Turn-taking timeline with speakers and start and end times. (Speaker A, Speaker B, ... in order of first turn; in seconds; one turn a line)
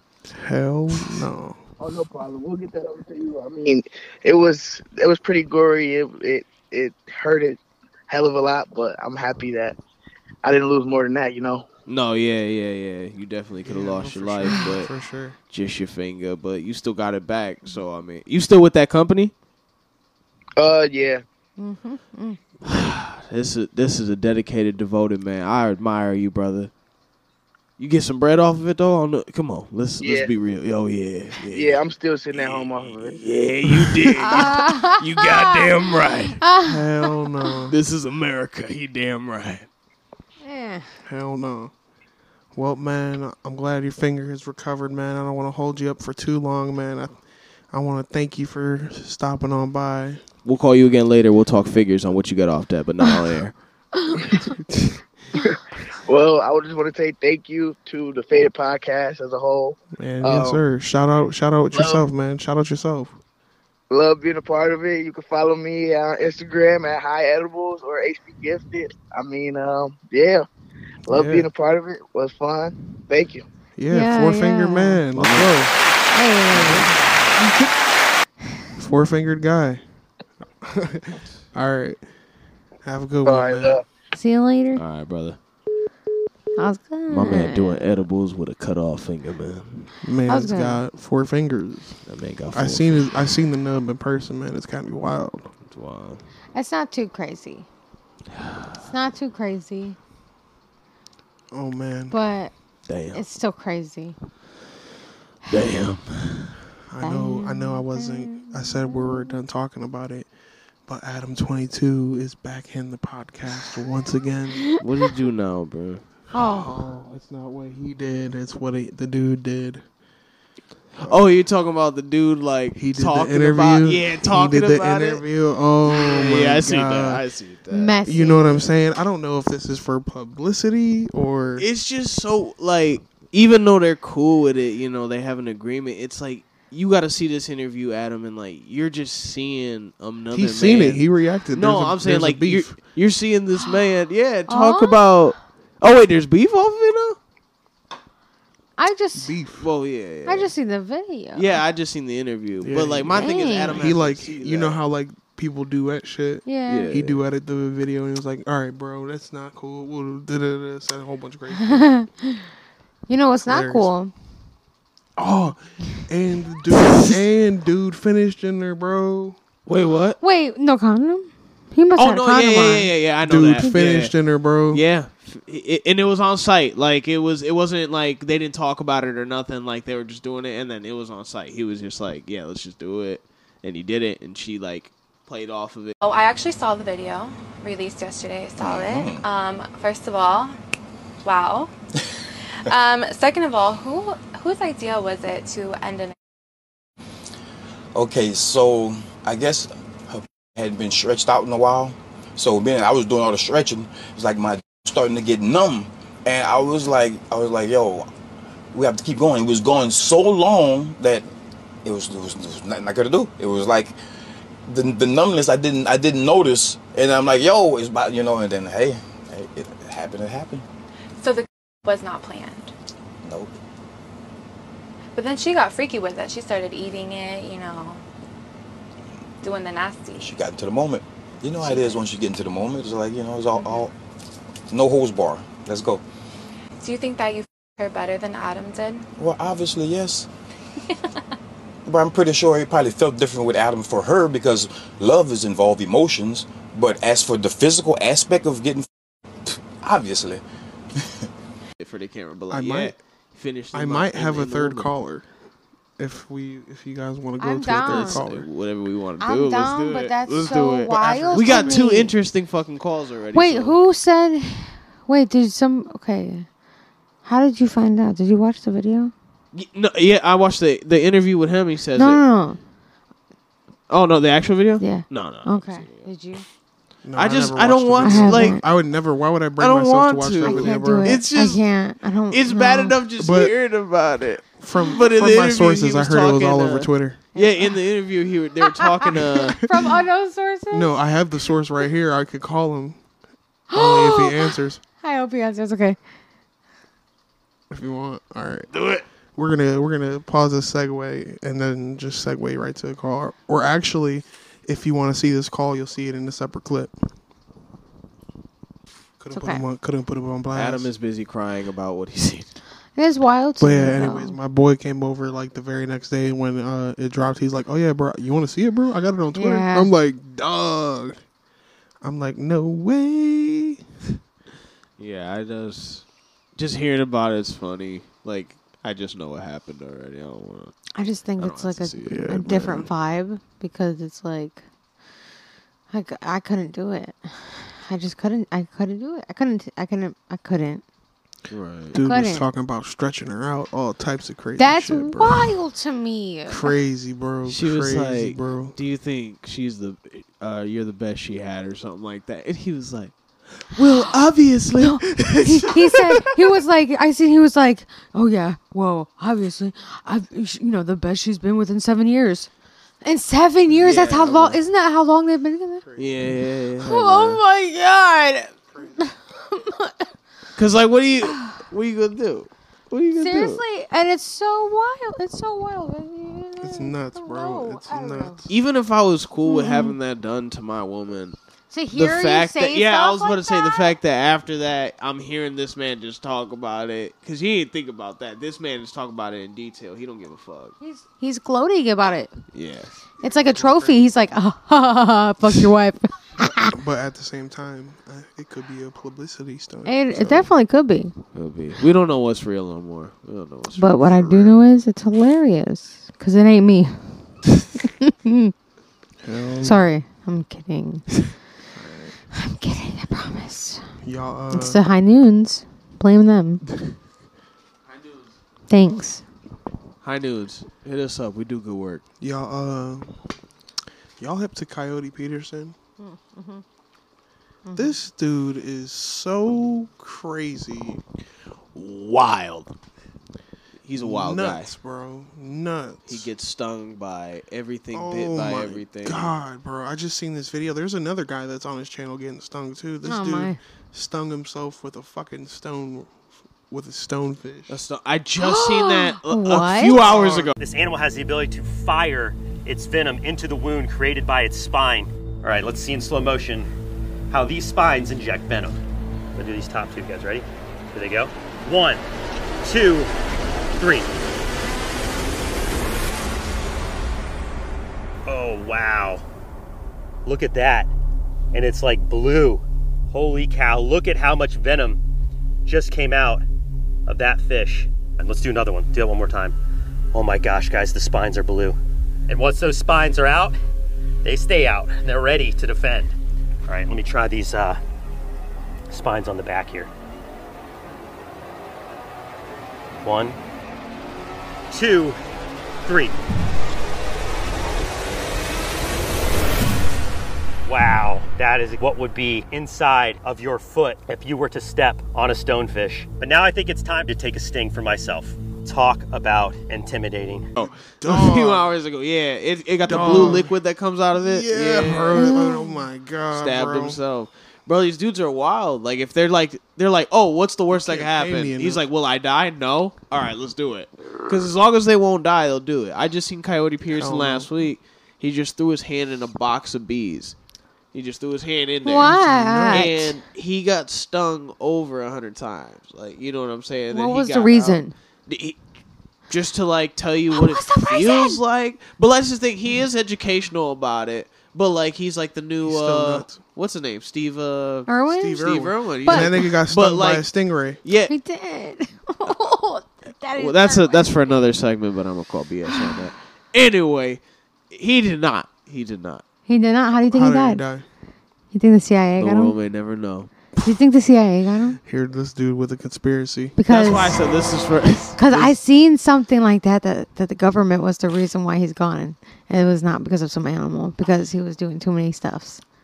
Speaker A: 0.3-1.6
Speaker B: 1.8-9.8
Speaker B: 10.4-11.7
Speaker C: 11.9-14.9
Speaker A: 13.6-15.4
Speaker C: 15.5-19.3
Speaker B: 20.6-21.2
Speaker D: 21.6-22.4
Speaker C: 22.6-26.7
Speaker C: 27.8-31.8
Speaker B: 30.0-30.3
Speaker B: 31.5-33.2
Speaker C: 32.3-36.4
Speaker D: 34.2-35.7
Speaker D: 36.4-37.1
Speaker A: 36.6-37.8
Speaker C: 37.7-39.7
Speaker D: 40.4-40.9
Speaker A: 41.0-41.7
Speaker A: 42.5-47.2
Speaker A: 47.7-50.2
Speaker C: 50.5-53.6
Speaker A: 54.4-55.0
Speaker B: 56.1-60.6
Speaker A: 59.9-63.2
Speaker B: 61.7-62.0
Speaker B: 63.9-70.5
Speaker A: 71.1-71.5
Speaker B: 71.1-73.5
Speaker A: 73.8-75.7
Speaker D: 73.9-75.0
Speaker C: 75.2-75.5
Speaker D: 76.1-77.0
Speaker C: 76.5-76.9
Speaker A: 78.8-79.8
Speaker A: 80.6-82.0
Speaker A: 82.8-83.8
Speaker B: 83.2-83.8
Speaker D: 84.1-84.8
Speaker C: 84.8-85.4
Speaker D: 86.6-87.8
Speaker C: 87.1-89.9
Speaker A: 90.0-95.5
Speaker D: 90.3-90.8
Speaker C: 92.1-93.1
Speaker C: 95.7-96.2
Speaker D: 96.5-97.7
Speaker C: 98.3-98.8
Speaker D: 98.8-100.0
Speaker A: 101.5-102.2
Speaker D: 102.1-102.5
Speaker C: 102.9-103.2
Speaker D: 103.1-104.2
Speaker C: 105.5-106.6
Speaker A: 106.9-110.3
Speaker D: 107.0-109.4
Speaker A: 110.9-114.8
Speaker C: 114.8-116.0
Speaker D: 116.3-116.8
Speaker A: 116.4-119.8
Speaker A: 121.0-121.2
Speaker C: 121.0-125.2
Speaker A: 122.8-127.2
Speaker C: 125.9-128.0
Speaker D: 127.7-128.6
Speaker A: 128.1-131.7
Speaker C: 131.6-147.2
Speaker A: 140.3-142.8
Speaker D: 144.5-145.0
Speaker D: 148.8-149.4
Speaker A: 149.2-149.7
Speaker C: 149.6-150.5
Speaker D: 150.3-151.6
Speaker C: 151.3-154.8
Speaker A: 152.6-162.0
Speaker D: 153.2-153.8
Speaker D: 156.5-156.9
Speaker C: 156.7-157.2
Speaker D: 161.7-162.4
Speaker D: 163.1-164.1
Speaker A: 163.4-163.9
Speaker A: 165.2-169.4
Speaker C: 169.7-170.2
Speaker D: 170.2-172.9
Speaker C: 172.0-174.1
Speaker A: 173.2-174.8
Speaker C: 174.7-185.9
Speaker E: 186.0-190.6
Speaker F: 188.6-189.2
Speaker E: 191.2-191.7
Speaker E: 192.7-196.2
Speaker F: 197.9-208.1
Speaker F: 208.7-211.3
Speaker F: 211.8-214.0
Speaker F: 214.7-220.6
Speaker E: 221.2-222.7
Speaker F: 223.2-223.5
Speaker E: 225.2-228.0
Speaker E: 229.4-230.3
Speaker F: 230.2-233.9
Speaker F: 234.7-236.0
Speaker E: 236.8-239.1
Speaker F: 239.2-240.3
Speaker F: 241.8-248.9
Speaker F: 249.5-250.4
Speaker C: 251.8-254.9
Speaker A: 252.5-252.9
Speaker A: 253.7-255.3
Speaker A: 256.0-258.5
Speaker D: 257.4-258.2
Speaker C: 257.9-263.8
Speaker D: 259.2-262.1
Speaker A: 260.9-261.9
Speaker D: 263.3-266.5
Speaker D: 267.2-269.1
Speaker C: 269.5-272.2
Speaker D: 272.0-272.6
Speaker C: 273.9-276.1
Speaker D: 274.8-276.4
Speaker A: 277.0-281.2
Speaker C: 277.2-278.6
Speaker D: 278.0-278.6
Speaker C: 279.6-281.6
Speaker D: 280.4-283.0
Speaker C: 282.3-289.6
Speaker A: 283.2-283.5
Speaker A: 284.6-287.2
Speaker D: 287.4-287.8
Speaker D: 288.8-291.0
Speaker A: 290.7-293.0
Speaker D: 293.7-296.0
Speaker A: 293.7-294.8
Speaker A: 297.7-298.7
Speaker C: 298.7-299.1
Speaker A: 299.4-306.9
Speaker A: 309.2-310.9
Speaker D: 309.3-309.7
Speaker C: 310.5-312.5
Speaker D: 313.0-314.4
Speaker A: 313.6-321.2
Speaker D: 319.4-319.9
Speaker A: 322.0-323.8
Speaker C: 325.0-326.0
Speaker C: 326.6-330.8
Speaker D: 330.9-334.6
Speaker C: 331.4-332.3
Speaker A: 332.1-332.9
Speaker D: 335.9-340.8
Speaker C: 341.5-342.0
Speaker A: 341.9-345.5
Speaker D: 341.9-342.5
Speaker D: 344.6-346.7
Speaker A: 346.5-348.8
Speaker C: 347.4-356.2
Speaker D: 353.8-354.0
Speaker D: 354.8-362.5
Speaker D: 363.0-365.8
Speaker C: 363.8-364.6
Speaker A: 365.8-366.4
Speaker C: 366.0-367.4
Speaker D: 366.8-370.1
Speaker A: 368.7-369.0
Speaker C: 370.6-373.6
Speaker D: 371.3-371.6
Speaker D: 373.1-378.4
Speaker A: 376.6-378.5
Speaker C: 378.5-381.4
Speaker D: 379.4-380.0
Speaker D: 381.7-383.9
Speaker C: 381.9-390.8
Speaker D: 390.8-392.3
Speaker C: 392.5-392.9
Speaker A: 393.2-394.1
Speaker D: 393.2-396.7
Speaker A: 396.4-400.5
Speaker D: 399.9-401.1
Speaker C: 401.3-404.6
Speaker D: 403.8-407.1
Speaker D: 407.8-408.5
Speaker A: 409.2-409.9
Speaker D: 409.6-411.2
Speaker A: 411.8-412.2
Speaker D: 412.3-413.9
Speaker A: 414.0-414.8
Speaker D: 414.5-416.6
Speaker D: 418.7-419.2
Speaker C: 420.0-422.0
Speaker A: 422.2-423.1
Speaker A: 424.2-425.8
Speaker D: 426.0-426.6
Speaker D: 427.7-427.9
Speaker A: 427.7-431.0
Speaker C: 431.8-432.7
Speaker C: 433.8-434.7
Speaker A: 433.9-436.3
Speaker C: 436.1-439.3
Speaker A: 437.9-446.1
Speaker D: 443.1-443.6
Speaker A: 446.7-447.8
Speaker C: 447.7-450.6
Speaker D: 448.4-450.0
Speaker A: 450.1-450.5
Speaker G: 450.6-456.7
Speaker G: 457.3-458.8
Speaker G: 459.4-462.0
Speaker G: 462.6-463.1
Speaker G: 463.8-464.1
Speaker G: 468.3-469.2
Speaker G: 470.3-470.9
Speaker G: 471.5-475.0
Speaker G: 475.7-476.4
Speaker G: 477.1-479.6
Speaker G: 480.1-481.8
Speaker G: 482.3-483.6
Speaker G: 484.2-486.1
Speaker G: 486.7-487.8
Speaker G: 488.9-489.9
Speaker G: 493.0-493.4
Speaker G: 494.7-495.2
Speaker G: 495.9-496.1
Speaker G: 500.6-510.5
Speaker A: 510.6-511.7
Speaker C: 510.6-515.3
Speaker A: 512.9-513.5
Speaker A: 514.2-517.0
Speaker D: 515.2-515.8
Speaker C: 516.3-530.4
Speaker A: 520.7-521.8
Speaker A: 526.9-527.5
Speaker C: 530.9-538.6
Speaker D: 531.8-533.1
Speaker A: 532.0-533.0
Speaker D: 536.9-537.9
Speaker C: 539.3-550.3
Speaker D: 540.3-541.4
Speaker A: 545.6-546.4
Speaker D: 547.9-548.5
Speaker A: 548.1-550.8
Speaker D: 549.0-549.5
Speaker C: 550.8-551.1
Speaker D: 551.1-554.4
Speaker C: 553.4-557.2
Speaker D: 555.7-556.0
Speaker C: 557.7-559.2
Speaker D: 559.5-560.6
Speaker A: 560.1-560.9
Speaker D: 561.5-562.6
Speaker C: 562.2-563.3
Speaker D: 563.6-564.8
Speaker A: 564.8-566.6
Speaker D: 566.6-567.2
Speaker C: 566.7-568.5
Speaker D: 568.2-575.6